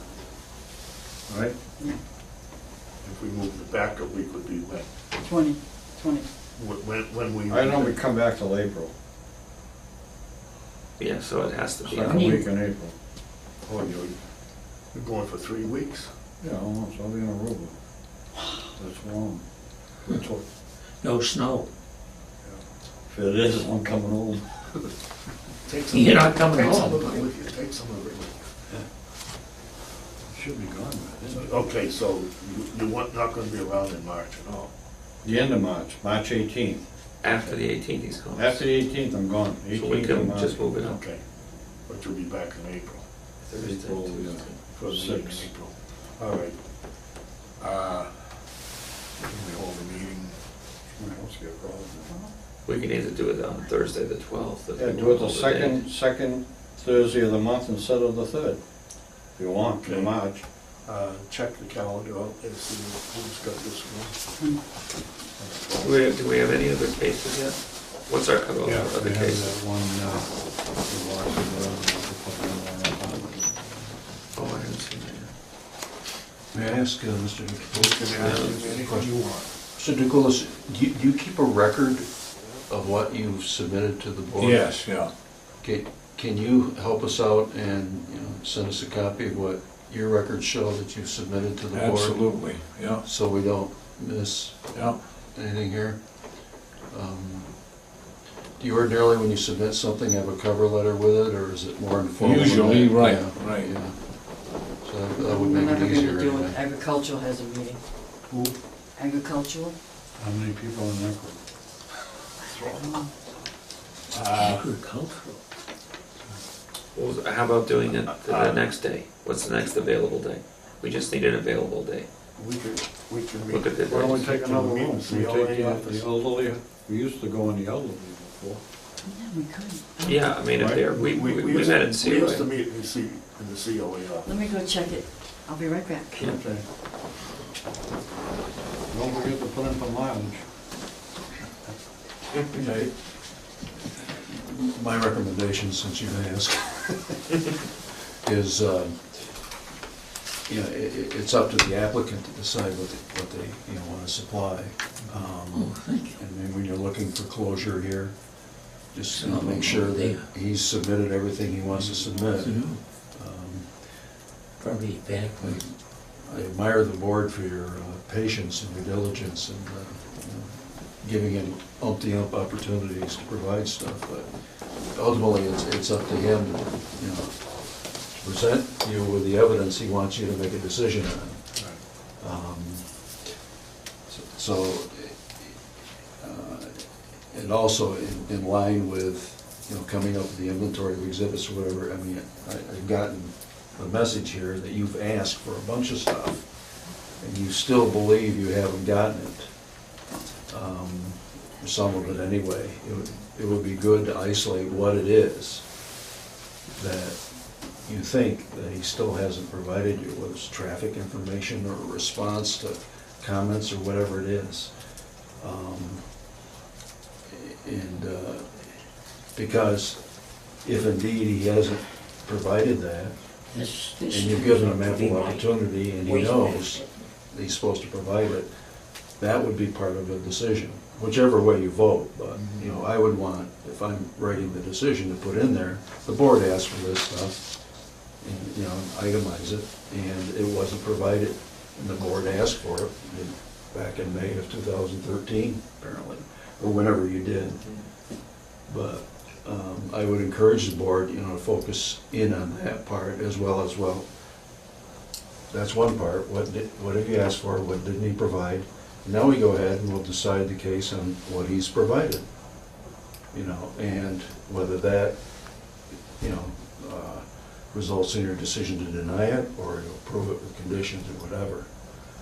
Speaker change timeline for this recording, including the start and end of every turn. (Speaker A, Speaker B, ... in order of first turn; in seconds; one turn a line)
Speaker A: 1.3-1.6
Speaker B: 3.0-5.1
Speaker C: 5.1-6.3
Speaker B: 6.5-8.0
Speaker A: 7.5-8.9
Speaker D: 11.0-12.4
Speaker A: 11.8-12.9
Speaker C: 12.1-12.4
Speaker B: 13.7-14.1
Speaker B: 14.9-16.1
Speaker A: 16.4-17.7
Speaker A: 18.8-19.4
Speaker A: 20.1-20.4
Speaker E: 21.0-21.7
Speaker A: 23.1-24.4
Speaker B: 25.6-28.4
Speaker E: 25.9-27.2
Speaker A: 30.3-31.5
Speaker B: 31.3-34.7
Speaker A: 35.2-36.8
Speaker D: 37.2-38.6
Speaker A: 38.3-40.7
Speaker D: 39.7-41.0
Speaker B: 40.8-41.2
Speaker B: 41.9-43.0
Speaker D: 43.4-44.5
Speaker A: 43.6-45.5
Speaker B: 44.7-46.6
Speaker B: 47.6-48.2
Speaker B: 49.2-50.4
Speaker A: 51.0-52.1
Speaker D: 52.6-55.9
Speaker A: 54.7-58.6
Speaker A: 59.4-60.4
Speaker B: 59.8-60.1
Speaker B: 60.8-64.2
Speaker B: 65.4-66.0
Speaker D: 65.8-69.5
Speaker A: 68.6-73.6
Speaker D: 74.3-75.3
Speaker F: 76.5-79.1
Speaker B: 77.7-79.5
Speaker D: 78.2-78.6
Speaker F: 79.7-82.1
Speaker F: 82.7-84.7
Speaker G: 84.3-85.1
Speaker F: 85.6-92.4
Speaker G: 91.7-93.0
Speaker F: 93.0-97.8
Speaker G: 94.7-95.0
Speaker F: 98.6-106.6
Speaker G: 102.2-103.7
Speaker C: 105.1-107.8
Speaker C: 109.0-109.7
Speaker A: 110.2-111.4
Speaker B: 112.5-112.8
Speaker C: 112.7-113.1
Speaker B: 114.1-114.6
Speaker E: 114.3-115.4
Speaker D: 116.9-122.1
Speaker B: 118.0-118.7
Speaker B: 122.4-126.2
Speaker D: 123.5-124.2
Speaker A: 123.8-128.6
Speaker C: 129.0-130.4
Speaker D: 130.0-132.4
Speaker A: 130.6-131.1
Speaker B: 131.0-134.3
Speaker C: 134.2-136.4
Speaker A: 136.3-136.6
Speaker A: 138.9-140.4
Speaker F: 142.5-142.9
Speaker F: 144.3-147.6
Speaker F: 148.2-149.4
Speaker F: 150.5-158.2
Speaker E: 155.5-156.2
Speaker F: 158.9-163.9
Speaker E: 159.1-160.2
Speaker E: 162.4-162.8
Speaker E: 164.6-165.6
Speaker F: 165.4-174.3
Speaker F: 174.8-181.4
Speaker F: 182.2-183.1
Speaker F: 184.1-185.6
Speaker F: 186.2-196.5
Speaker F: 197.2-199.8
Speaker F: 200.5-205.7
Speaker F: 206.7-216.1
Speaker F: 217.3-218.4
Speaker F: 219.3-220.0
Speaker F: 220.6-223.2
Speaker E: 223.5-226.9
Speaker F: 224.1-228.5
Speaker F: 229.2-237.5
Speaker B: 232.5-232.8
Speaker F: 238.2-254.1
Speaker F: 255.5-262.3
Speaker F: 263.3-271.9